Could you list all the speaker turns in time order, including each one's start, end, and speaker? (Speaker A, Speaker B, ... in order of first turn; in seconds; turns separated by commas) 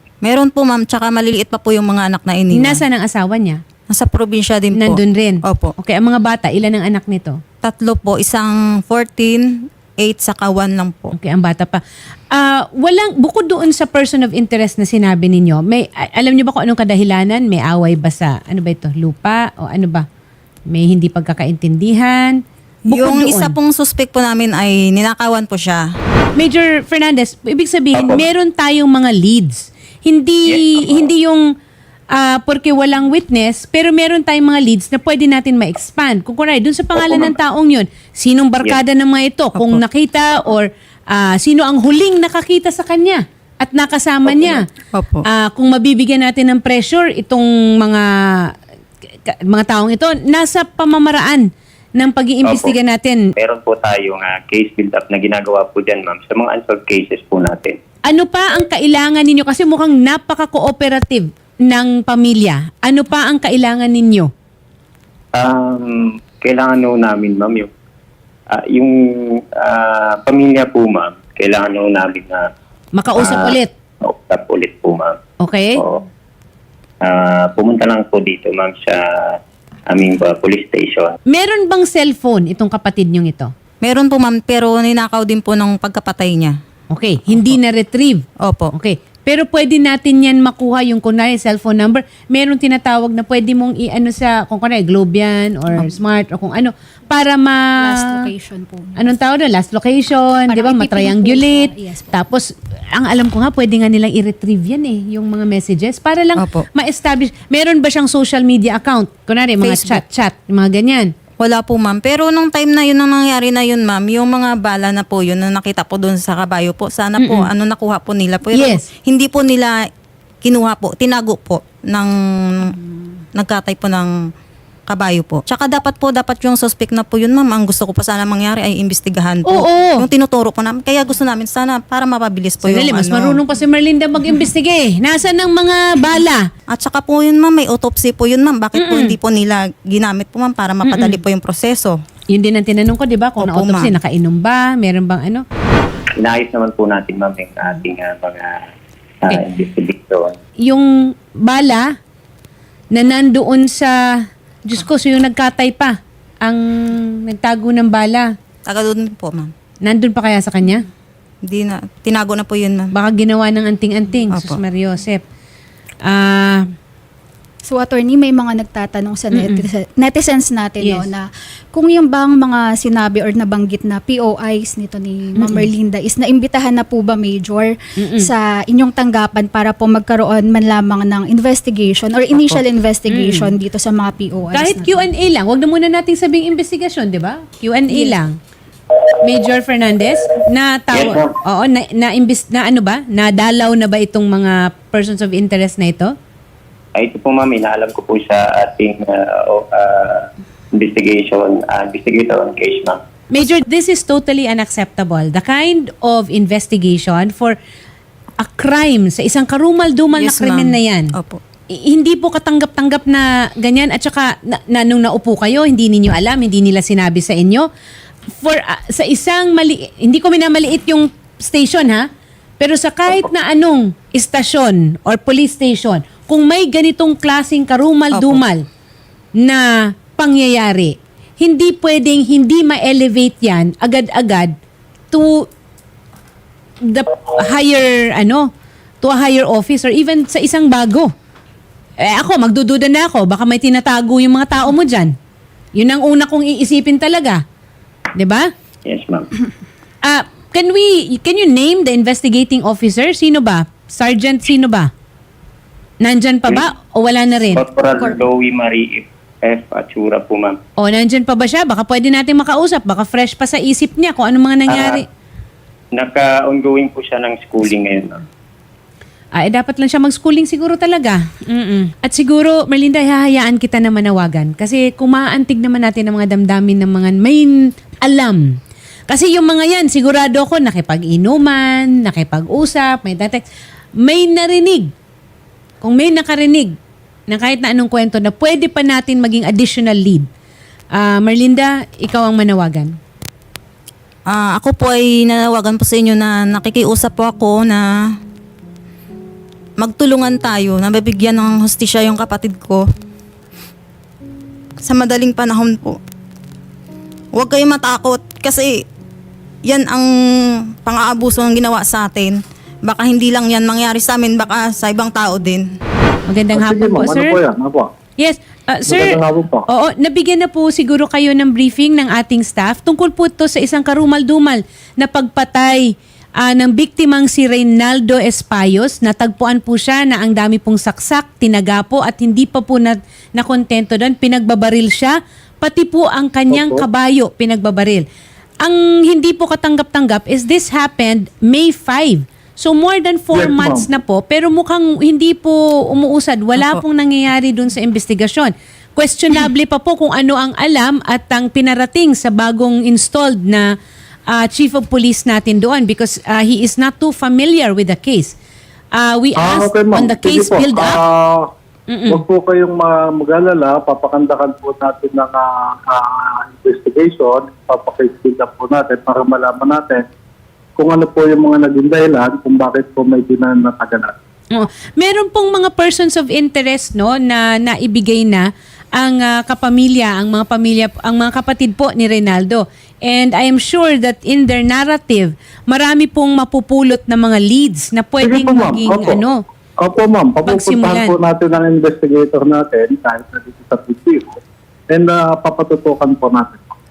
Speaker A: 0.2-2.8, Speaker B: 2.5-3.6, Speaker A: 3.9-5.7, Speaker B: 4.8-7.4, Speaker A: 7.6-9.4, Speaker A: 10.0-11.1, Speaker B: 11.1-20.0, Speaker B: 20.7-23.5, Speaker A: 22.9-25.8, Speaker B: 26.4-31.4, Speaker C: 27.9-28.2, Speaker C: 30.4-31.1, Speaker B: 32.1-44.6, Speaker C: 36.9-37.3, Speaker A: 39.5-39.8, Speaker C: 44.2-44.6, Speaker A: 44.9-45.2, Speaker B: 45.3-48.5, Speaker B: 49.2-53.3, Speaker C: 52.5-52.7, Speaker C: 53.4-57.8, Speaker B: 58.0-64.3, Speaker C: 65.3-67.7, Speaker C: 68.5-72.5, Speaker B: 72.9-73.7, Speaker C: 73.2-75.2, Speaker B: 75.4-75.8, Speaker C: 75.8-76.0, Speaker C: 77.0-79.4, Speaker C: 79.9-81.1, Speaker B: 81.2-83.5, Speaker A: 83.8-86.5, Speaker B: 86.9-97.6, Speaker A: 88.4-88.7, Speaker D: 97.8-99.0, Speaker B: 99.0-111.1, Speaker D: 100.5-102.2, Speaker A: 106.4-106.7, Speaker A: 109.6-110.0, Speaker A: 111.4-119.7, Speaker B: 117.2-117.5, Speaker B: 118.5-118.9, Speaker A: 120.4-122.7, Speaker A: 123.3-124.1, Speaker A: 124.9-133.4, Speaker B: 129.5-130.0, Speaker B: 132.6-136.4, Speaker A: 136.7-142.0, Speaker B: 138.8-139.2, Speaker B: 140.8-141.2, Speaker B: 142.3-145.4, Speaker A: 143.4-143.9, Speaker C: 146.2-148.6, Speaker C: 149.2-150.3, Speaker B: 150.6-151.9, Speaker B: 152.9-158.3, Speaker A: 158.7-159.5, Speaker B: 159.8-160.8, Speaker A: 161.4-162.9, Speaker B: 162.9-165.2, Speaker A: 164.3-164.6, Speaker B: 166.0-166.7, Speaker D: 167.6-185.0, Speaker B: 169.3-169.6, Speaker B: 170.8-171.1, Speaker B: 175.4-175.7, Speaker B: 178.0-178.3, Speaker B: 183.1-183.5, Speaker B: 184.5-188.3, Speaker B: 189.2-196.1, Speaker C: 190.9-191.3, Speaker C: 196.9-203.0, Speaker B: 203.3-207.6, Speaker B: 208.4-211.1, Speaker A: 210.1-211.4, Speaker B: 211.7-217.7, Speaker B: 218.3-222.1, Speaker B: 222.6-228.6, Speaker A: 228.1-228.4, Speaker B: 229.4-234.5, Speaker B: 235.1-235.5, Speaker B: 236.8-238.5, Speaker B: 239.0-241.1, Speaker B: 242.0-245.1, Speaker B: 245.7-247.4, Speaker B: 248.2-248.5, Speaker C: 248.8-249.3, Speaker B: 250.0-254.9, Speaker B: 256.0-257.6, Speaker C: 257.5-260.6, Speaker B: 260.8-265.0, Speaker C: 264.7-265.0, Speaker C: 265.9-268.2, Speaker B: 269.3-278.6, Speaker B: 279.1-283.4, Speaker B: 284.0-284.9, Speaker B: 285.8-286.7, Speaker B: 287.3-290.3, Speaker B: 290.9-292.9, Speaker A: 294.3-297.8, Speaker A: 299.8-302.8, Speaker A: 304.8-306.0, Speaker A: 307.3-308.7, Speaker A: 309.6-310.1, Speaker A: 310.7-315.7, Speaker B: 316.3-317.4, Speaker E: 316.5-317.9, Speaker B: 318.2-338.0, Speaker E: 318.9-319.6, Speaker E: 336.5-336.8, Speaker B: 338.6-353.7, Speaker E: 343.3-343.9, Speaker A: 346.6-346.8, Speaker B: 354.3-358.3, Speaker B: 358.9-361.0, Speaker E: 359.4-361.5, Speaker B: 361.9-362.2, Speaker E: 362.1-370.1, Speaker E: 370.8-374.1, Speaker B: 374.5-389.4, Speaker E: 388.2-389.2, Speaker E: 389.8-394.4, Speaker B: 390.4-391.1, Speaker E: 394.9-396.7